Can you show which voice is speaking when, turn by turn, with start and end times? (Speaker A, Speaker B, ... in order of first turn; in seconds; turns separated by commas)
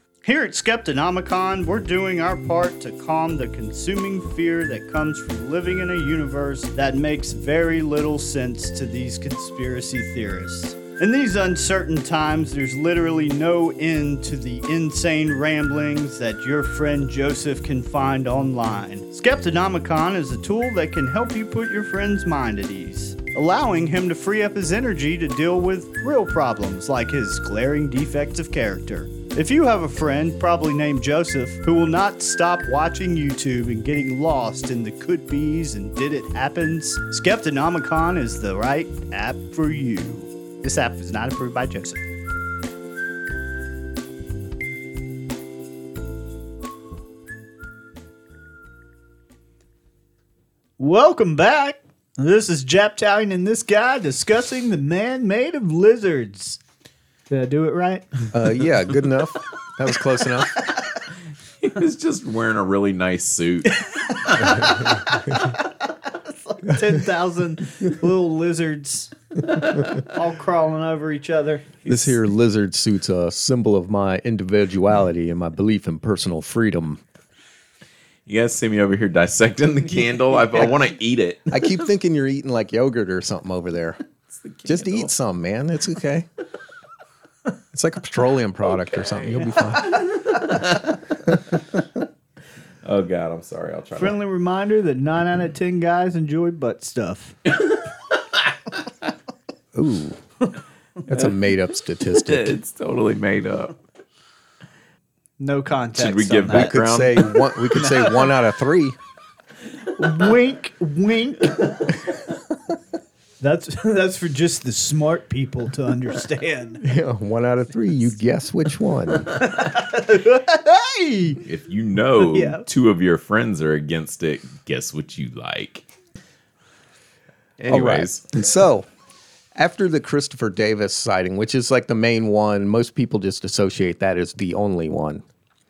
Speaker A: 0.2-42.0, Speaker A: 50.8-56.6, Speaker A: 57.3-58.3, Speaker B: 58.3-60.5, Speaker C: 61.6-64.7, Speaker A: 63.8-65.7, Speaker A: 66.4-69.1, Speaker A: 69.9-72.2, Speaker B: 71.9-77.0, Speaker C: 78.3-81.7, Speaker B: 81.5-84.0, Speaker C: 84.3-85.1, Speaker B: 84.7-86.3, Speaker B: 87.7-90.1, Speaker C: 89.9-91.0, Speaker C: 92.8-94.2, Speaker A: 94.0-97.3, Speaker B: 99.7-100.2, Speaker B: 101.1-102.5, Speaker C: 102.0-103.7, Speaker A: 105.4-106.7, Speaker C: 106.0-107.8, Speaker B: 106.5-109.0, Speaker A: 107.9-108.2, Speaker A: 109.9-111.8, Speaker A: 113.4-116.8, Speaker B: 116.8-119.3, Speaker A: 119.3-121.4, Speaker C: 121.4-125.8, Speaker A: 122.2-122.6, Speaker C: 127.6-128.3, Speaker B: 127.7-128.8, Speaker B: 129.6-135.2